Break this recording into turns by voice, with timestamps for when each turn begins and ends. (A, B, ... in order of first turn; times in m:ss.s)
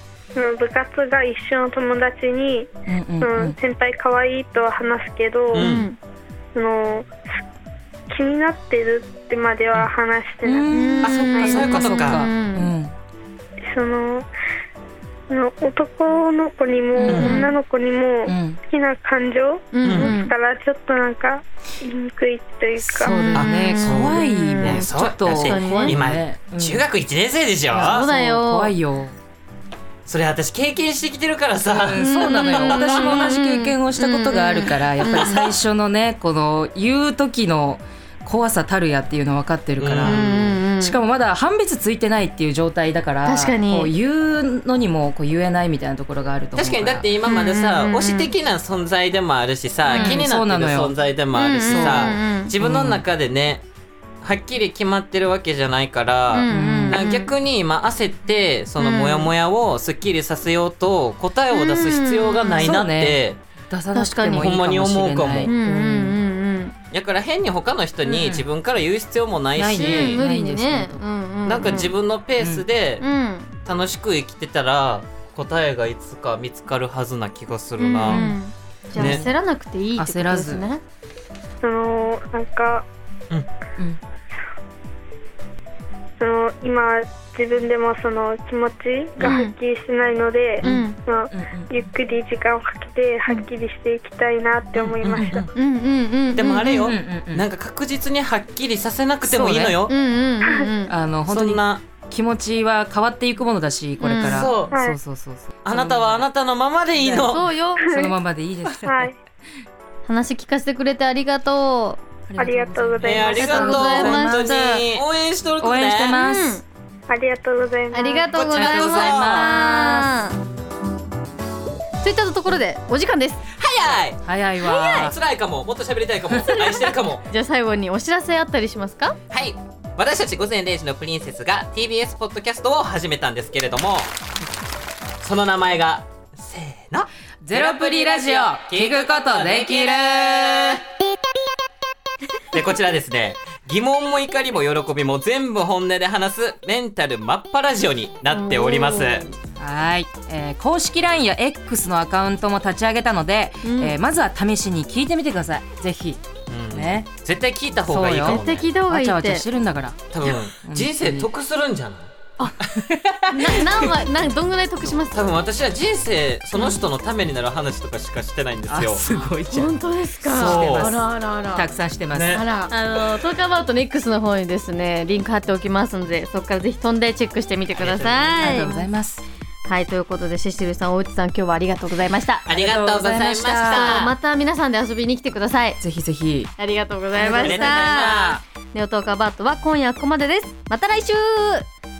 0:00.3-0:02.7 A
0:02.9-0:03.6 B
0:03.2-0:05.8 A
0:05.5-0:05.9 C
0:05.5-0:06.0 D
0:06.5-0:07.1 A
0:08.1-0:10.7 A
0:10.4-0:12.9 B
0:10.7-0:12.7 D
0:11.0-0:12.2 C
0:11.3-0:11.9 A
0:13.7-0:14.3 A
0:15.3-0:23.2 A
0:17.0-0:17.5 D
0:17.0-0:17.5 B
0:17.1-0:17.4 C
0:18.2-0:18.6 B
0:19.7-0:20.3 D
0:19.8-0:20.1 C
0:22.8-0:26.8 B
0:23.1-0:26.0 D
0:23.3-0:28.1 C
0:27.7-0:29.1 B
0:27.8-0:28.7 D
0:30.0-0:33.2 C
0:31.7-0:40.2 B
0:32.0-0:35.3 D
0:35.0-0:35.6 C
0:39.8-0:40.6 C
0:40.0-0:41.0 D
0:40.8-0:47.1 B
0:43.2-0:43.9 D
0:46.5-0:53.6 C
0:47.2-0:48.3 D
0:49.9-0:50.2 D
0:49.9-0:51.0 B
0:51.3-0:52.5 D
0:51.7-0:53.0 B
0:54.2-1:03.4 C
0:56.3-0:57.3 D
0:56.5-0:57.0 B
0:58.8-0:59.3 D
1:01.5-1:02.8 D
1:02.6-1:06.2 B
1:03.9-1:04.6 D
1:04.4-1:05.5 C
1:05.4-1:06.7 D
1:06.9-1:10.2 C
1:08.0-1:08.4 B
1:09.6-1:11.0 B
1:09.8-1:11.9 D
1:11.4-1:13.0 C
1:13.0-1:13.5 D
1:13.6-1:18.3 C
1:17.8-1:20.8 D
1:18.1-1:18.4 B
1:18.9-1:19.3 B
1:18.9-1:19.2 C
1:20.0-1:20.6 B
1:21.6-1:22.8 A
1:26.2-1:35.4 A
1:29.2-1:29.5 D
1:30.6-1:31.0 D
1:30.6-1:31.7 B
1:34.7-1:35.5 C
1:35.1-1:35.4 B
1:35.5-1:36.9 D
1:36.3-1:39.9 C
1:36.8-1:37.5 B
1:39.2-1:39.8 B
1:39.9-1:40.9 D
1:40.4-1:40.7 A
1:40.9-1:46.2 B
1:41.3-1:41.8 C
1:44.0-1:44.5 D
1:44.2-1:44.7 C
1:44.7-1:45.0 A
1:45.6-1:47.4 C
1:47.0-1:49.1 B
1:47.2-1:47.9 D
1:48.8-1:49.1 A
1:50.0-1:52.0 D
1:52.3-1:54.6 B
1:52.4-1:53.8 A
1:53.0-1:56.2 C
1:53.2-1:55.0 D
1:55.6-1:56.6 B
1:56.1-1:56.6 D
1:57.1-1:58.4 A
1:57.9-2:00.4 D
1:58.3-1:59.5 C
1:58.5-2:00.2 B
2:02.0-2:03.4 D
2:03.6-2:07.2 C
2:04.2-2:05.1 B
2:06.3-2:06.7 B
2:07.2-2:09.2 D
2:09.3-2:14.1 C
2:15.2-2:20.8 C
2:17.4-2:20.7 B
2:22.5-2:29.3 C
2:28.3-2:29.2 D
2:29.6-2:36.2 B
2:33.6-2:34.0 D
2:36.5-2:38.7 C
2:36.7-2:37.1 B
2:37.8-2:41.3 B
2:38.2-2:39.5 D
2:40.1-2:42.1 C
2:42.7-2:43.9 B
2:43.3-2:45.3 D
2:45.1-2:49.0 C
2:46.5-2:46.9 D
2:48.7-2:49.7 B
2:49.5-2:51.7 D
2:50.2-2:50.9 C
2:50.2-2:52.5 B
2:52.1-2:52.5 C
2:52.3-2:58.9 D
2:57.7-2:58.6 C
2:58.3-2:59.2 B
2:59.7-3:02.5 D
3:02.4-3:04.1 C
3:02.5-3:04.1 B
3:03.6-3:05.8 D
3:05.8-3:06.5 B
3:06.6-3:11.6 D
3:07.2-3:08.4 C
3:07.2-3:08.4 B